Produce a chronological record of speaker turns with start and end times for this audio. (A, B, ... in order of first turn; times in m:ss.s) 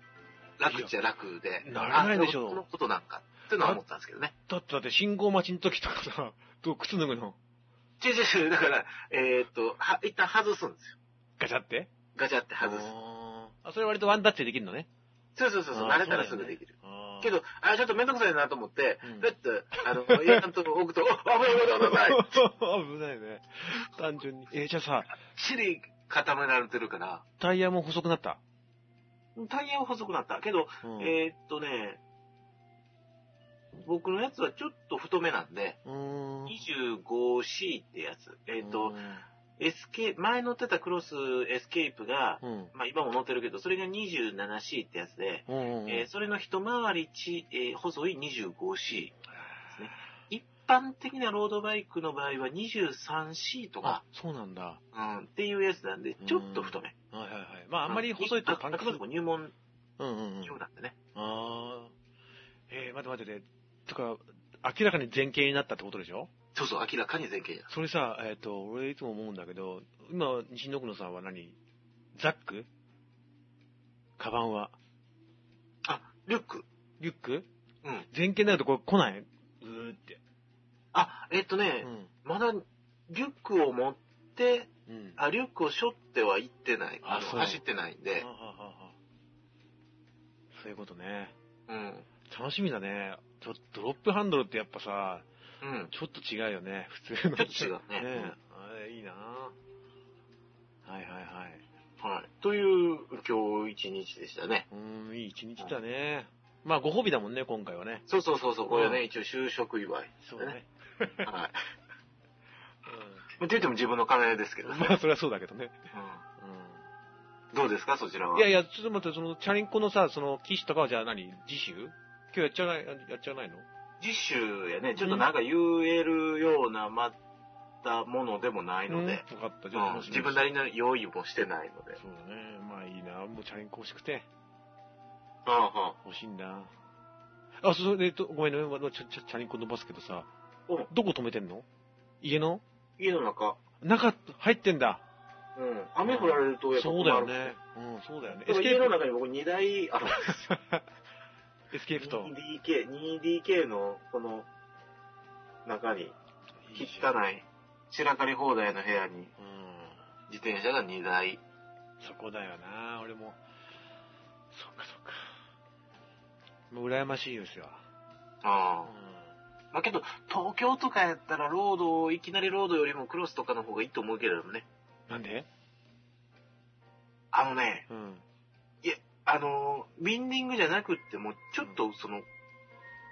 0:00.6-0:04.3 A
0:01.6-0:02.6 B
0:04.5-0:07.4 B
0:08.0-0:11.0 A
0:11.4-0:11.9 B
0:12.1-0:12.9 A
0:12.6-0:14.9 B
0:15.3-0:22.4 A
0:15.7-0:17.3 B
0:19.0-0:20.4 B
0:21.7-0:25.2 B
0:25.2-0:27.2 A
0:27.4-0:28.4 B
0:29.4-0:32.0 A
0:30.8-0:31.1 B
0:33.7-0:35.8 A
0:35.8-0:36.6 B
0:36.5-0:38.9 A
0:38.6-0:39.2 B
0:39.6-0:49.2 A
0:42.4-0:42.7 B
0:45.5-0:46.1 B
0:49.3-0:50.0 B
0:49.7-0:54.0 A
0:53.8-0:54.8 B
0:54.9-0:56.9 A
0:56.2-0:59.0 B
0:57.9-0:59.5 A
1:00.0-1:00.6 B
1:00.4-1:00.9 A
1:01.1-1:01.9 B
1:02.7-1:06.3 B
1:06.5-1:07.7 A
1:07.7-1:11.6 B
1:12.1-1:12.7 B
1:14.2-1:14.7 B
1:15.8-1:16.6 A
1:17.0-1:17.5 B
1:18.1-1:20.2 B
1:20.9-1:28.2 A
1:21.8-1:22.1 B
1:24.9-1:25.2 B
1:27.0-1:27.6 B
1:28.2-1:29.0 B
1:30.5-1:31.3 B
1:31.7-1:32.1 A
1:32.3-1:35.2 B
1:35.6-1:35.9 A
1:35.9-1:39.5 B
1:37.4-1:38.3 A
1:40.8-1:41.6 B
1:42.0-1:44.6 A
1:44.7-1:48.0 B
1:48.1-1:50.6 A
1:48.7-1:49.0 B
1:50.2-1:51.3 B
1:51.2-1:51.6 A
1:52.8-1:53.3 B
1:53.4-1:54.9 A
1:54.6-1:55.8 B
1:55.9-1:56.2 A
1:56.4-1:56.8 B
1:57.5-1:58.5 A
1:58.3-2:03.6 B
2:04.0-2:07.2 A
2:05.0-2:05.3 B
2:07.8-2:12.0 A
2:08.9-2:10.4 B
2:12.0-2:14.3 B
2:15.4-2:16.0 A
2:16.0-2:16.7 B
2:17.6-2:20.3 B
2:20.9-2:21.6 B
2:22.2-2:22.6 B
2:23.0-2:23.6 A
2:23.8-2:25.0 B
2:25.6-2:27.5 A
2:26.0-2:28.9 B
2:28.4-2:30.5 A
2:30.2-2:30.8 B
2:31.7-2:32.3 B
2:32.0-2:34.5 A
2:35.6-2:36.1 A
2:36.6-2:37.1 B
2:36.7-2:39.3 A
2:39.4-2:40.0 B
2:40.3-2:41.4 A
2:42.0-2:43.4 B
2:44.5-2:45.3 B
2:46.7-2:47.8 B
2:48.4-2:48.9 A
2:48.8-2:49.3 B
2:49.7-2:54.6 A
2:55.1-2:55.5 B
2:57.3-2:57.8 A
2:57.9-2:58.2 B
2:58.8-3:02.2 A